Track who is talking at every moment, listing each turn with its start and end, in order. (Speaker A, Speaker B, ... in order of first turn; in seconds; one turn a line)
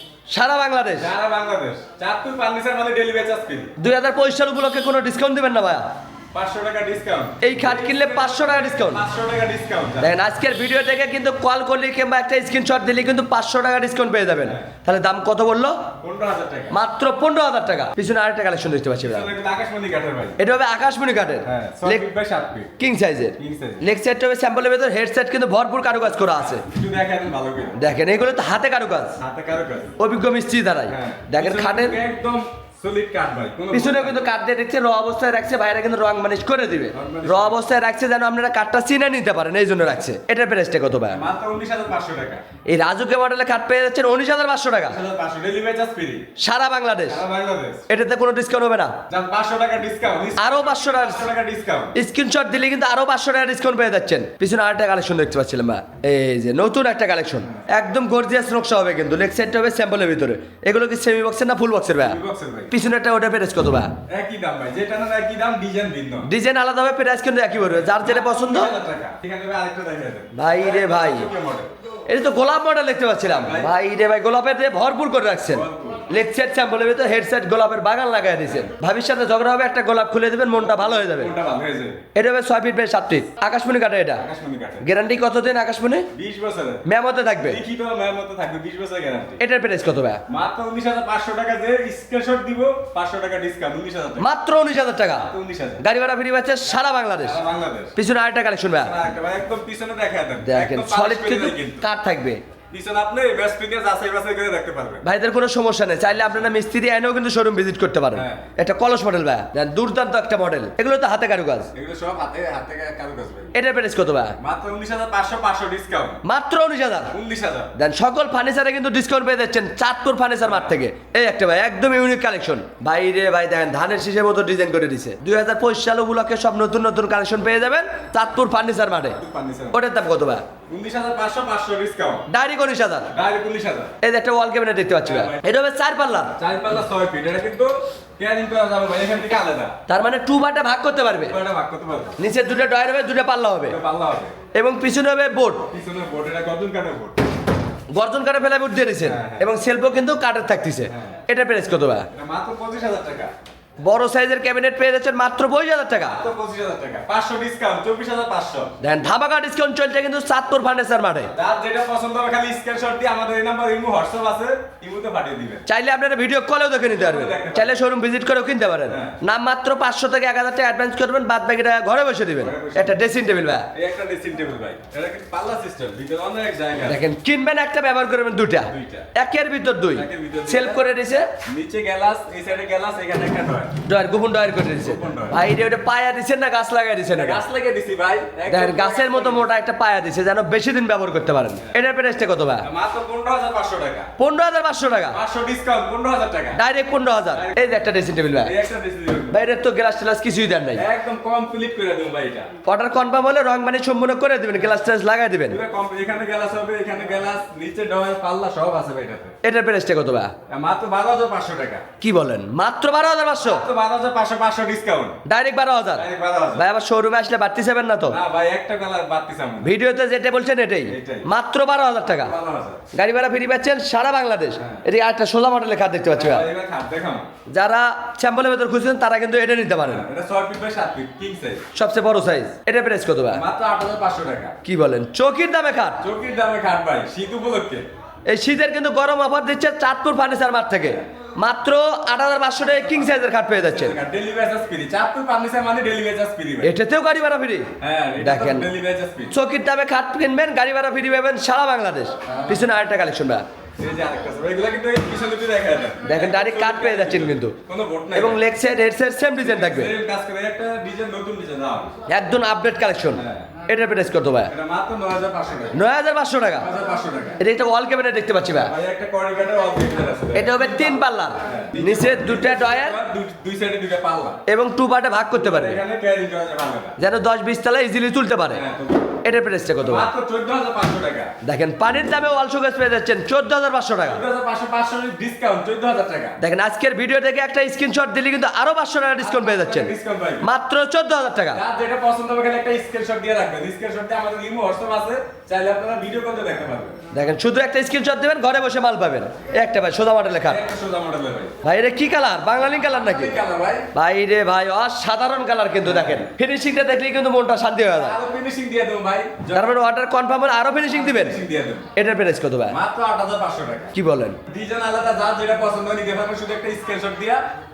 Speaker A: 0.3-1.1
Speaker B: 1.0-3.7
Speaker A: 3.8-5.8
Speaker B: 6.3-10.1
Speaker A: 7.4-9.0
Speaker A: 10.0-15.8
Speaker B: 16.0-16.8
Speaker A: 16.7-19.3
Speaker B: 19.0-20.4
Speaker A: 20.4-22.1
Speaker B: 21.4-22.7
Speaker A: 22.8-26.6
Speaker B: 23.4-23.8
Speaker B: 26.0-27.8
Speaker A: 27.8-29.2
Speaker B: 29.2-29.9
Speaker A: 30.0-32.0
Speaker B: 30.9-34.2
Speaker A: 33.7-41.2
Speaker B: 36.9-37.7
Speaker B: 41.1-42.4
Speaker A: 42.6-45.0
Speaker B: 44.9-46.3
Speaker A: 46.4-47.2
Speaker B: 47.0-47.9
Speaker A: 47.9-48.9
Speaker B: 49.1-52.0
Speaker A: 50.4-51.3
Speaker A: 51.9-62.2
Speaker B: 62.0-62.7
Speaker A: 62.7-63.9
Speaker B: 64.1-66.3
Speaker A: 66.2-68.8
Speaker B: 67.6-71.7
Speaker A: 70.3-71.3
Speaker A: 72.1-81.3
Speaker B: 73.2-73.7
Speaker B: 75.4-76.1
Speaker B: 80.5-82.0
Speaker A: 82.1-84.2
Speaker B: 84.1-84.8
Speaker A: 84.8-86.1
Speaker B: 86.1-86.8
Speaker A: 86.8-87.6
Speaker B: 87.4-89.4
Speaker A: 89.4-90.2
Speaker B: 90.3-94.3
Speaker A: 94.2-95.3
Speaker B: 95.2-95.8
Speaker A: 95.8-97.4
Speaker B: 97.2-97.9
Speaker A: 98.0-98.9
Speaker B: 98.8-101.8
Speaker A: 100.4-102.4
Speaker B: 102.7-105.1
Speaker A: 105.0-111.7
Speaker B: 106.1-106.5
Speaker B: 108.1-108.5
Speaker B: 111.7-113.5
Speaker A: 113.5-114.3
Speaker B: 114.4-116.2
Speaker A: 116.2-117.1
Speaker B: 117.1-117.7
Speaker A: 117.8-129.2
Speaker B: 120.4-120.8
Speaker B: 129.1-129.8
Speaker A: 129.7-130.4
Speaker B: 130.7-132.3
Speaker A: 132.3-133.1
Speaker B: 133.1-133.9
Speaker A: 134.0-136.3
Speaker B: 135.0-135.4
Speaker B: 136.4-139.8
Speaker A: 139.9-141.4
Speaker B: 141.2-142.2
Speaker A: 142.2-143.8
Speaker B: 143.6-144.3
Speaker A: 144.5-145.7
Speaker B: 145.7-147.2
Speaker A: 147.9-152.1
Speaker B: 149.0-149.5
Speaker B: 150.8-151.2
Speaker B: 152.1-153.3
Speaker A: 153.8-156.2
Speaker B: 156.0-158.7
Speaker A: 158.8-161.3
Speaker B: 161.3-165.6
Speaker A: 165.7-173.7
Speaker B: 166.9-167.8
Speaker B: 168.8-169.2
Speaker B: 172.4-173.0
Speaker B: 173.7-177.0
Speaker A: 176.8-181.3
Speaker B: 178.6-179.1
Speaker B: 179.9-180.8
Speaker B: 181.4-183.8
Speaker A: 183.8-187.4
Speaker B: 184.7-185.4
Speaker B: 187.1-189.5
Speaker A: 188.5-192.7
Speaker B: 192.6-194.1
Speaker A: 194.2-195.2
Speaker B: 195.1-196.6
Speaker A: 196.5-198.5
Speaker B: 197.3-197.7
Speaker B: 198.4-199.4
Speaker A: 199.3-200.8
Speaker B: 200.7-202.5
Speaker A: 202.6-205.6
Speaker B: 205.5-209.3
Speaker A: 209.4-210.3
Speaker B: 210.5-211.8
Speaker A: 212.0-213.7
Speaker B: 213.4-215.2
Speaker A: 215.2-218.2
Speaker B: 215.9-216.7
Speaker B: 218.1-219.7
Speaker A: 219.6-222.3
Speaker B: 220.9-221.3
Speaker B: 222.0-222.8
Speaker A: 222.9-226.5
Speaker B: 224.6-224.8
Speaker B: 226.1-227.2
Speaker A: 227.5-230.1
Speaker B: 229.8-231.6
Speaker A: 231.7-233.4
Speaker B: 233.3-234.5
Speaker A: 234.6-236.0
Speaker B: 236.0-237.9
Speaker A: 238.3-244.0
Speaker B: 242.6-246.7
Speaker A: 246.6-248.7
Speaker B: 247.8-249.3
Speaker A: 249.3-253.4
Speaker B: 252.2-252.7
Speaker B: 253.8-258.4
Speaker A: 256.0-257.6
Speaker A: 258.1-259.9
Speaker B: 259.4-261.9
Speaker A: 262.1-264.5
Speaker B: 263.1-263.5
Speaker B: 264.5-265.8
Speaker A: 265.7-266.7
Speaker B: 266.6-267.4
Speaker A: 267.4-268.7
Speaker B: 268.5-274.4
Speaker A: 270.3-273.0
Speaker A: 274.5-275.8
Speaker B: 275.3-276.9
Speaker A: 277.0-278.6
Speaker B: 278.5-279.2
Speaker A: 279.2-280.1
Speaker B: 279.8-281.3
Speaker A: 281.4-284.2
Speaker B: 284.0-286.4
Speaker A: 286.4-291.6
Speaker B: 289.2-290.4
Speaker B: 291.5-297.0
Speaker A: 297.1-300.6
Speaker B: 300.4-301.5
Speaker A: 301.6-303.4
Speaker B: 302.7-303.9
Speaker A: 303.9-308.2
Speaker B: 305.8-306.2
Speaker B: 307.9-309.7
Speaker A: 309.5-311.4
Speaker B: 310.8-311.9
Speaker A: 311.9-312.8
Speaker B: 312.7-313.9
Speaker A: 313.9-314.4
Speaker B: 314.5-317.4